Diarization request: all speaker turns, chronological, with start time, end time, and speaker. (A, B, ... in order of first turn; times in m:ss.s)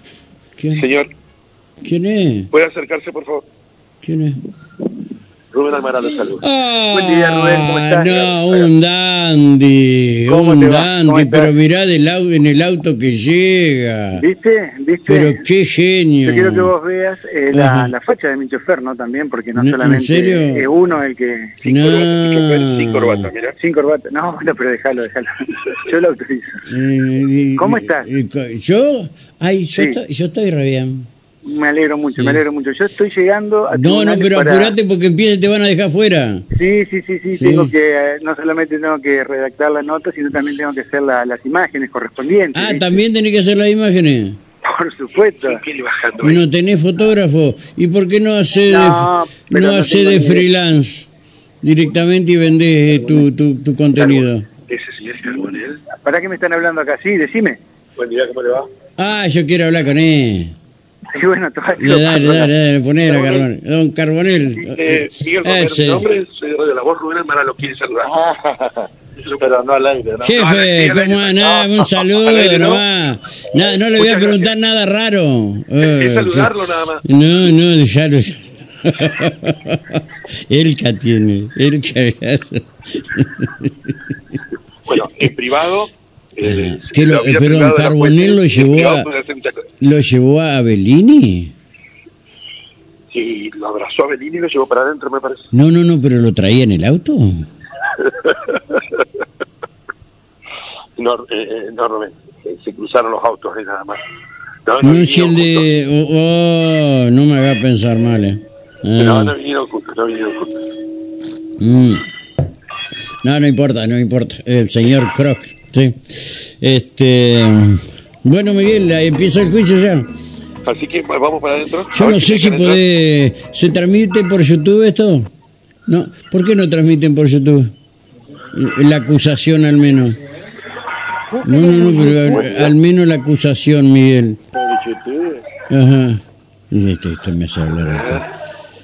0:00.6-0:00.9 A
0:01.8-0:02.5 A
0:02.5-0:03.4 B
0:04.0-0:04.4 A
0:05.5-0:06.4 B
0:06.3-0:14.2 A
0:06.9-0:08.3 C
0:08.3-0:08.7 B
0:10.3-0:11.5 C
0:14.2-0:15.4 C
0:15.0-0:16.7 A
0:16.2-0:21.6 C
0:17.5-0:17.9 A
0:19.5-0:20.7 A
0:21.6-0:23.6 B
0:21.6-0:23.3 A
0:23.6-0:26.6 C
0:26.6-0:31.1 A
0:27.6-0:28.1 C
0:29.7-0:30.0 C
0:31.4-0:34.8 C
0:33.7-0:36.5 A
0:36.5-0:43.0 C
0:37.3-0:37.7 A
0:42.5-0:44.4 A
0:44.6-0:45.6 C
0:45.2-0:46.4 B
0:46.2-0:51.1 A
0:48.6-0:50.5 C
0:51.6-0:54.4 A
0:54.0-0:55.8 B
0:55.9-0:57.6 C
0:58.0-0:58.7 B
0:59.0-1:00.5 A
1:01.1-1:02.5 C
1:01.8-1:06.0 A
1:03.0-1:03.5 B
1:04.6-1:08.2 B
1:08.1-1:08.7 D
1:09.4-1:10.4 D
1:10.2-1:24.2 A
1:10.3-1:12.8 B
1:11.4-1:11.7 D
1:13.6-1:14.5 B
1:15.8-1:17.0 B
1:24.8-1:29.6 B
1:26.4-1:29.1 A
1:29.8-1:31.5 A
1:33.1-1:35.4 B
1:35.5-1:37.4 A
1:38.0-1:38.8 B
1:41.0-1:44.0 B
1:44.6-1:45.7 B
1:44.8-1:49.3 A
1:49.0-1:50.6 B
1:51.6-1:52.1 A
1:53.2-1:56.0 A
1:56.6-2:00.1 A
2:00.6-2:02.8 B
2:01.9-2:05.3 A
2:05.9-2:07.7 A
2:08.5-2:10.2 A
2:11.3-2:12.6 C
2:11.4-2:14.4 A
2:14.6-2:14.8 D
2:15.7-2:18.2 A